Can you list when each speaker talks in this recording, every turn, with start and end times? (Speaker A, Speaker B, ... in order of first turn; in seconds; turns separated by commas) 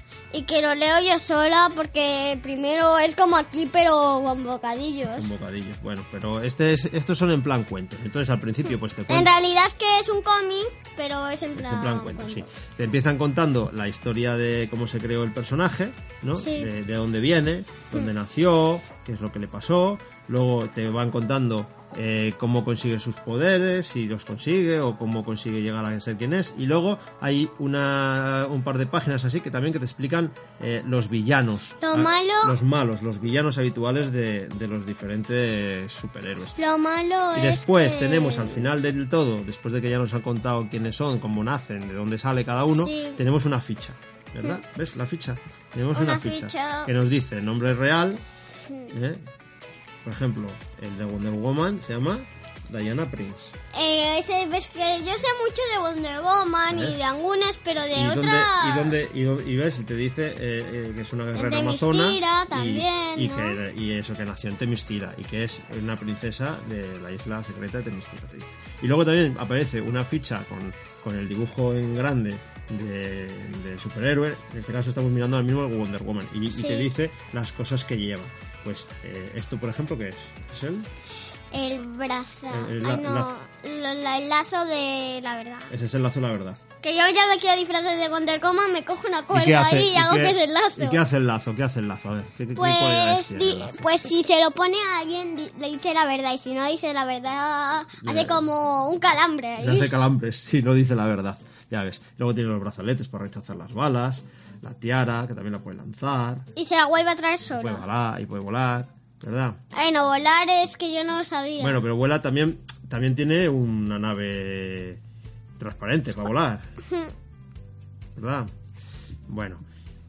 Speaker A: 0.3-5.3, Speaker B: 5.1-9.3, Speaker A: 9.1-12.4, Speaker B: 11.6-36.6, Speaker A: 16.4-16.7, Speaker A: 31.8-32.6, Speaker A: 36.6-38.7, Speaker B: 37.3-48.2, Speaker A: 42.8-43.2, Speaker A: 45.9-46.9, Speaker B: 48.9-49.2, Speaker B: 50.0-53.5, Speaker A: 53.7-59.0, Speaker B: 56.7-57.0, Speaker B: 57.9-80.9, Speaker A: 61.4-63.6, Speaker A: 76.5-76.9, Speaker A: 81.5-85.7, Speaker B: 82.5-83.3, Speaker B: 85.7-86.6, Speaker A: 86.8-91.0, Speaker B: 89.3-93.9, Speaker A: 92.6-99.9, Speaker B: 98.0-98.5, Speaker B: 99.6-106.5, Speaker A: 106.6-107.8, Speaker B: 107.6-109.6, Speaker A: 109.7-111.8, Speaker B: 111.6-115.0, Speaker B: 115.6-116.7, Speaker B: 118.2-118.5, Speaker B: 119.3-119.6